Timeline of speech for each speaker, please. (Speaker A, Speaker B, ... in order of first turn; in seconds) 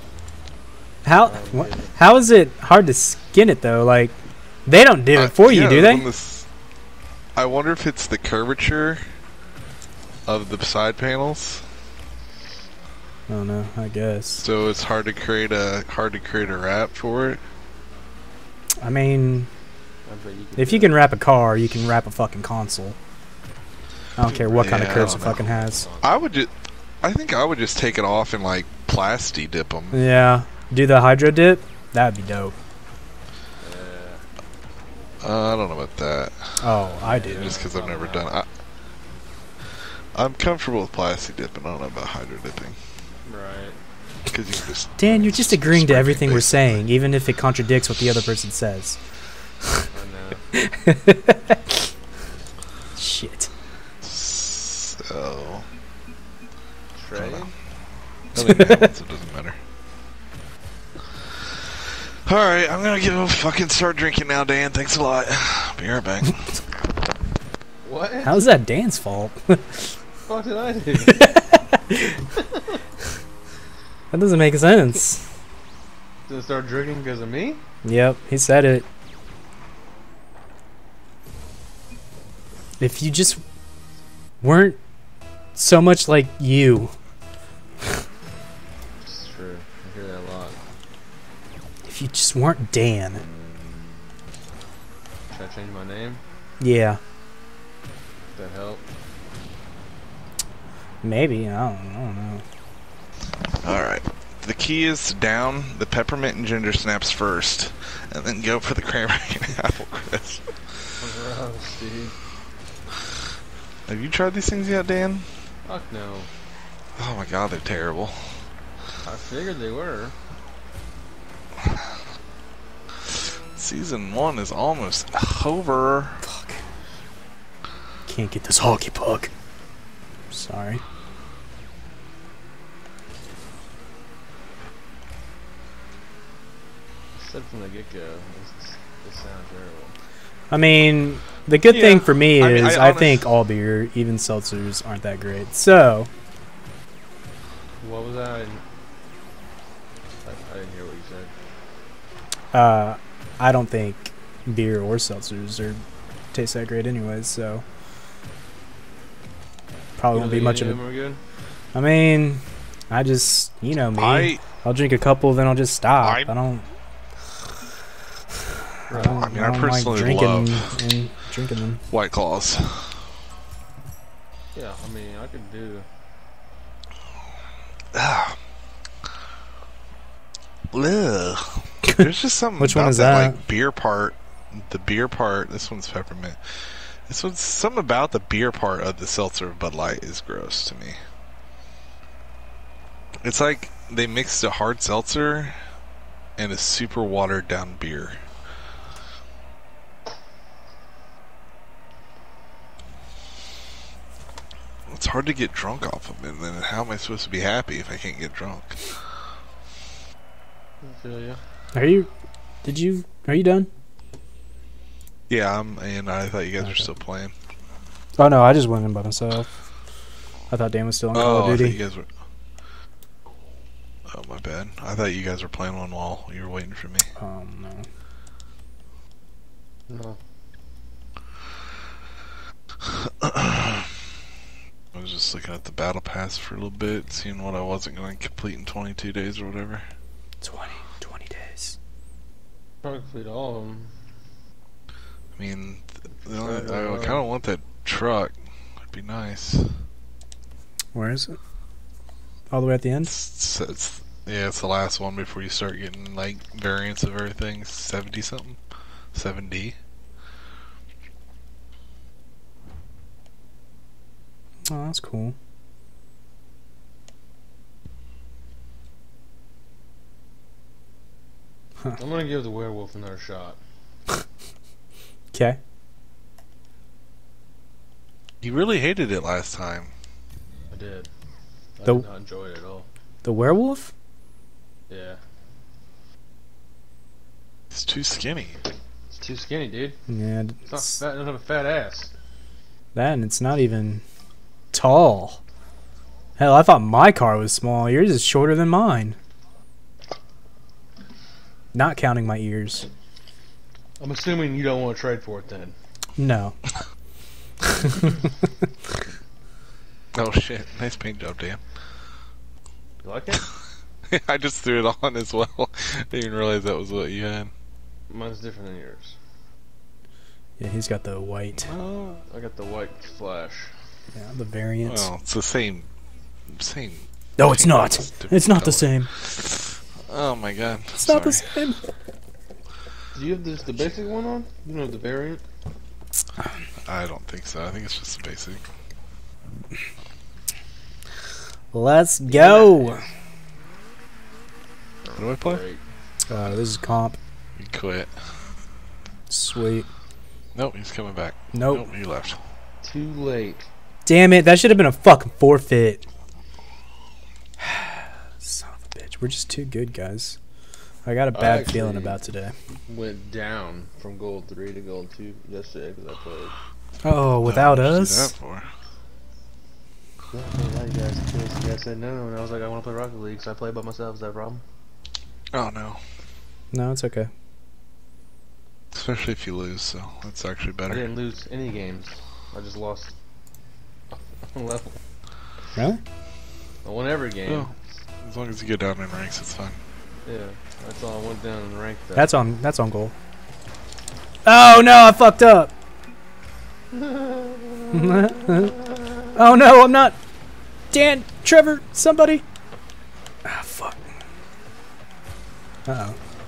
Speaker A: 1.0-4.1, 4.7-6.0, 13.3-14.4, 18.8-19.5, 20.6-22.9, 24.2-25.8, 29.9-32.5, 36.6-37.5, 45.0-49.0, 50.5-51.9, 52.9-53.5, 58.4-58.9, 68.2-69.9, 71.1-72.2, 74.1-75.2, 77.8-78.8, 82.8-83.4, 84.4-84.8, 85.5-86.9, 91.8-93.2, 96.6-97.0, 101.0-102.4, 126.2-126.6, 128.1-129.3, 130.3-130.8, 140.5-146.1, 152.5-155.8, 156.3-157.6, 160.0-160.8, 161.7-166.7, 168.9-171.8, 182.6-183.4, 211.7-212.1, 212.6-213.7, 216.6-216.9, 218.2-219.6, 220.5-221.8, 227.2-227.9, 240.4-241.8, 250.9-251.4, 252.5-253.1, 264.7-265.3, 275.3-275.6, 283.2-283.9, 290.1-290.9, 292.9-294.0, 294.7-295.4, 296.4-299.2, 301.7-302.9, 306.2-306.6, 307.7-308.1, 320.6-321.7, 324.1-325.1, 327.4-329.1, 330.9-331.8, 341.7-343.0, 346.3-347.2, 349.3-349.9, 351.5-351.9, 354.1-356.0, 357.6-360.4, 361.1-362.5, 367.0-368.3, 376.7-377.3, 385.8-386.0, 392.1-393.1, 394.4-395.7, 397.9-400.2, 400.9-402.4, 403.4-404.1, 405.9-406.2
Speaker B: 1.2-1.9, 20.1-21.0, 24.4-26.2, 33.6-34.2, 37.0-38.4, 43.2-43.8, 49.9-50.4, 56.9-57.5, 67.8-68.4, 70.3-71.3, 76.3-77.6, 89.0-90.6, 95.3-96.2, 98.3-98.8, 111.0-112.2, 115.6-116.3, 119.0-120.2, 137.1-139.9, 147.8-148.6, 150.2-151.3, 160.1-161.2, 168.9-169.3, 174.5-175.8, 210.8-211.4, 229.9-230.2, 242.8-243.9, 246.2-247.2, 271.9-273.6, 280.7-281.1, 281.8-282.9, 284.9-285.2, 289.1-290.0, 290.7-292.1, 304.0-305.7, 313.0-313.4, 318.1-319.1, 322.3-323.7, 333.1-335.4, 342.3-342.9, 345.0-345.8, 352.8-353.7, 361.3-362.2, 362.9-366.6, 370.3-374.6, 380.9-383.1, 384.1-385.0, 386.8-387.7, 390.2-392.3, 396.9-398.8
Speaker C: 5.2-6.5, 7.3-9.0, 10.2-11.6, 14.4-17.4, 24.6-25.4, 26.0-30.0, 35.2-36.8, 37.3-38.5, 40.1-42.8, 44.3-46.8, 54.0-55.7, 57.1-57.5, 58.3-59.6, 61.6-66.5, 103.6-110.5, 113.9-115.3, 117.0-118.4, 123.5-126.2, 141.6-143.3, 164.0-164.4, 166.0-166.3, 169.1-170.7, 171.9-173.0, 177.9-178.4, 180.7-191.0, 193.2-195.6, 196.4-198.2, 204.9-208.9, 215.3-217.3, 221.1-222.1, 224.1-227.1, 232.8-234.0, 234.9-239.8, 245.4-248.3, 248.9-249.8, 253.1-258.6, 259.1-259.8, 278.4-279.9, 287.7-288.6, 310.1-311.6, 314.1-317.5, 321.6-322.2, 324.8-325.9, 326.5-331.5, 336.8-338.6, 345.1-345.6, 347.6-348.1, 350.5-352.4, 367.4-368.7, 375.5-376.0, 378.9-381.1, 387.4-389.8